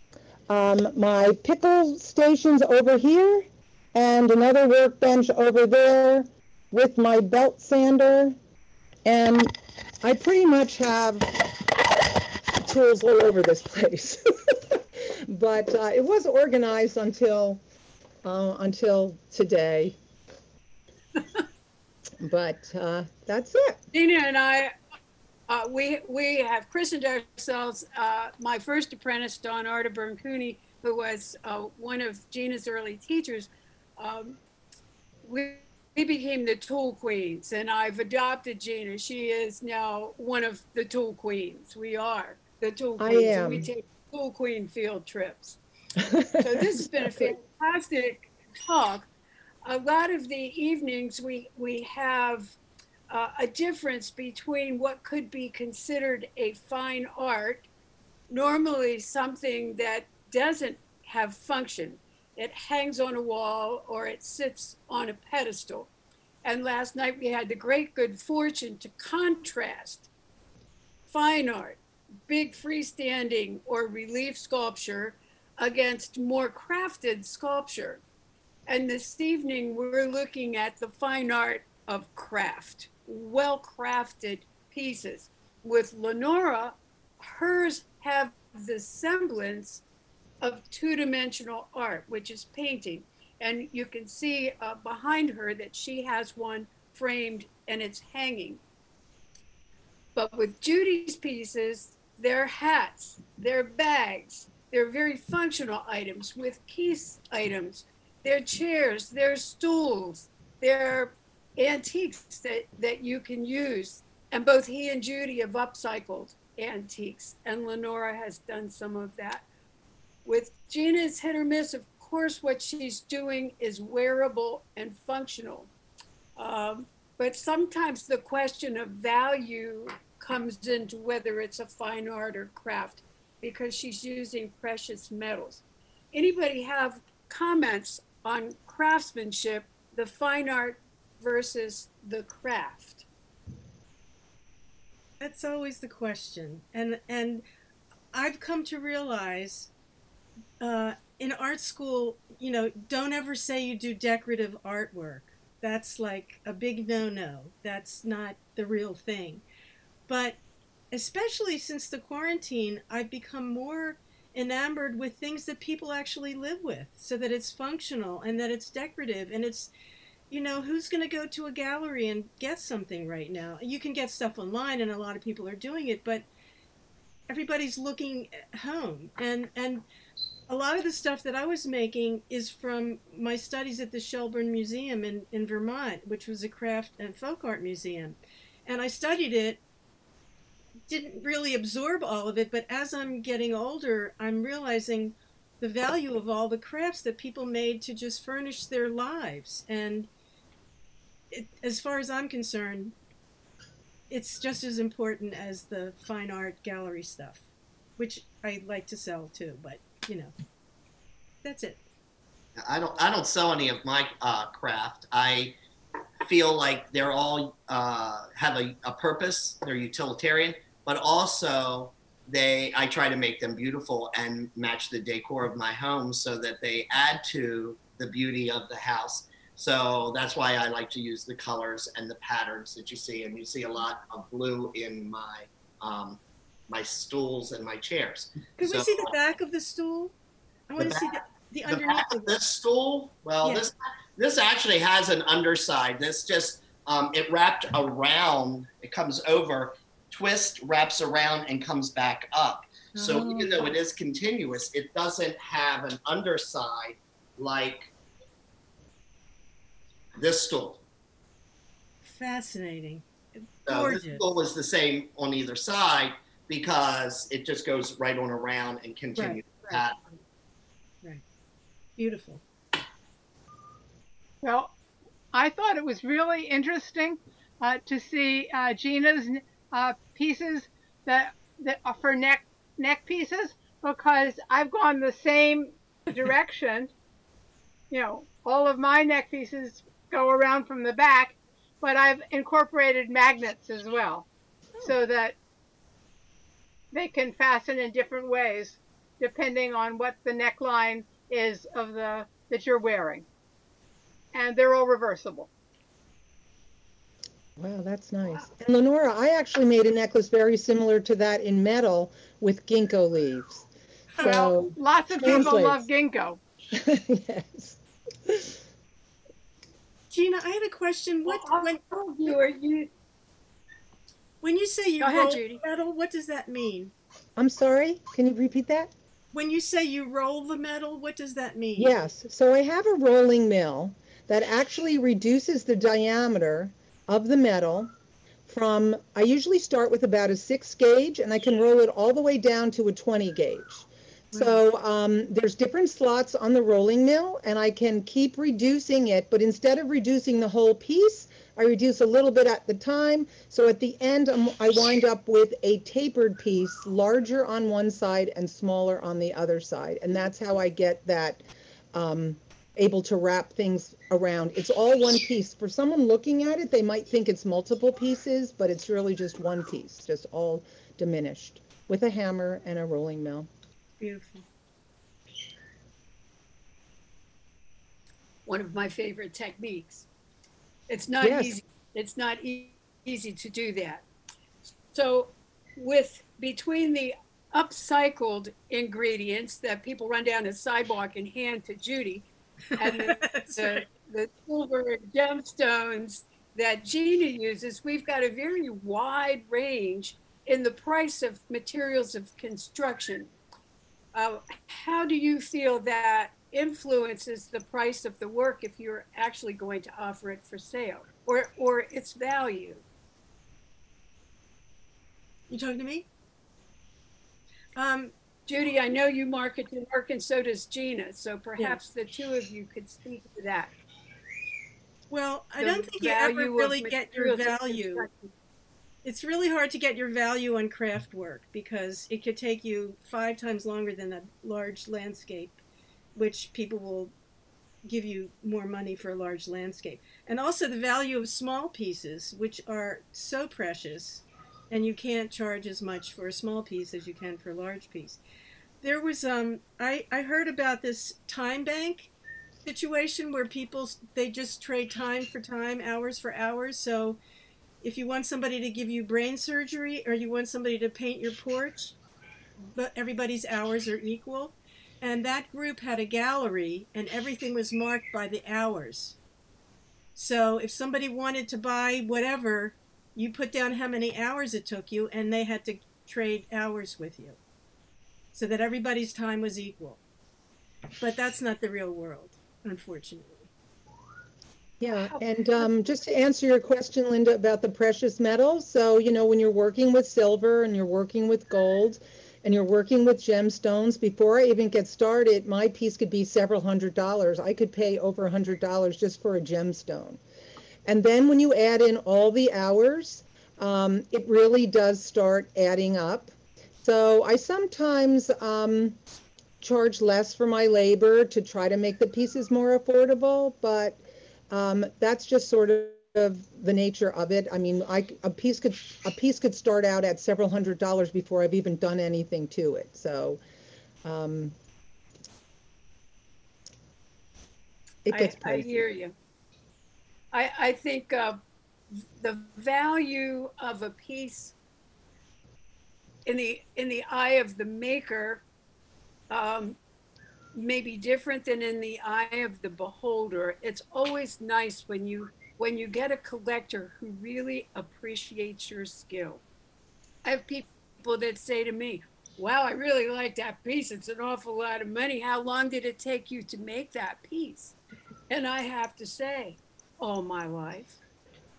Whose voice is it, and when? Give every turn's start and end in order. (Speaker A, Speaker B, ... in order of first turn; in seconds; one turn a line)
Speaker A: 0.5-8.4
Speaker A: 9.1-11.5
Speaker A: 12.7-17.6
Speaker A: 18.2-20.0
Speaker A: 22.2-23.8
Speaker B: 23.9-24.7
Speaker B: 25.5-34.4
Speaker B: 35.2-45.6
Speaker A: 43.0-43.7
Speaker A: 46.0-47.3
Speaker B: 46.4-49.1
Speaker B: 49.6-52.6
Speaker B: 53.1-57.7
Speaker B: 58.3-65.9
Speaker B: 66.4-70.1
Speaker B: 71.1-78.0
Speaker B: 78.7-89.8
Speaker B: 90.4-98.6
Speaker B: 100.2-119.5
Speaker B: 120.2-125.7
Speaker B: 126.4-143.1
Speaker C: 145.2-147.4
Speaker C: 148.1-149.7
Speaker C: 150.6-159.4
Speaker C: 160.1-160.4
Speaker C: 160.9-169.7
Speaker C: 170.3-176.3
Speaker C: 177.3-179.9
Speaker C: 180.5-189.6
Speaker C: 190.9-200.1
Speaker C: 201.3-203.0
Speaker C: 204.1-210.3
Speaker C: 211.4-211.8
Speaker D: 212.6-215.6
Speaker D: 216.2-239.1
Speaker C: 238.6-240.1
Speaker C: 240.7-242.3
Speaker D: 240.8-257.9
Speaker C: 243.4-243.7
Speaker C: 252.9-253.7
Speaker D: 260.2-260.8
Speaker C: 262.0-264.2
Speaker D: 263.7-270.0
Speaker C: 269.1-270.1
Speaker C: 272.0-272.4
Speaker E: 274.4-274.7
Speaker E: 275.3-286.9
Speaker E: 287.9-294.3
Speaker E: 294.8-295.4
Speaker E: 296.9-303.2
Speaker E: 304.3-305.5
Speaker A: 307.6-313.7
Speaker A: 314.2-315.8
Speaker E: 314.2-316.4
Speaker A: 316.7-318.5
Speaker C: 320.1-321.8
Speaker B: 321.3-322.9
Speaker C: 324.4-326.9
Speaker B: 325.0-325.6
Speaker A: 327.4-328.9
Speaker C: 329.3-332.0
Speaker A: 331.8-337.9
Speaker A: 338.5-373.5
Speaker C: 344.3-344.6
Speaker C: 374.0-374.5
Speaker B: 378.5-380.1
Speaker B: 380.9-384.1
Speaker A: 381.2-381.6
Speaker B: 384.9-403.3
Speaker C: 392.8-393.9
Speaker B: 404.1-412.8
Speaker C: 415.5-416.1
Speaker C: 417.8-418.1
Speaker B: 418.5-423.7
Speaker C: 425.1-428.1
Speaker B: 425.6-428.3
Speaker C: 429.0-435.6
Speaker C: 436.1-437.1
Speaker C: 437.8-448.2
Speaker C: 448.8-452.1
Speaker C: 452.6-457.2
Speaker C: 457.8-462.0
Speaker C: 462.6-469.2
Speaker C: 470.1-477.4
Speaker C: 478.3-480.0
Speaker C: 481.0-483.5
Speaker A: 484.8-500.2
Speaker B: 484.9-485.8
Speaker A: 500.9-506.3
Speaker A: 506.8-509.0
Speaker A: 509.6-523.4
Speaker A: 524.0-524.5
Speaker A: 528.1-528.9
Speaker B: 528.1-529.1
Speaker B: 530.3-534.5
Speaker B: 536.3-538.4
Speaker B: 539.3-539.8
Speaker B: 540.5-549.4
Speaker B: 550.2-557.8
Speaker B: 558.3-561.0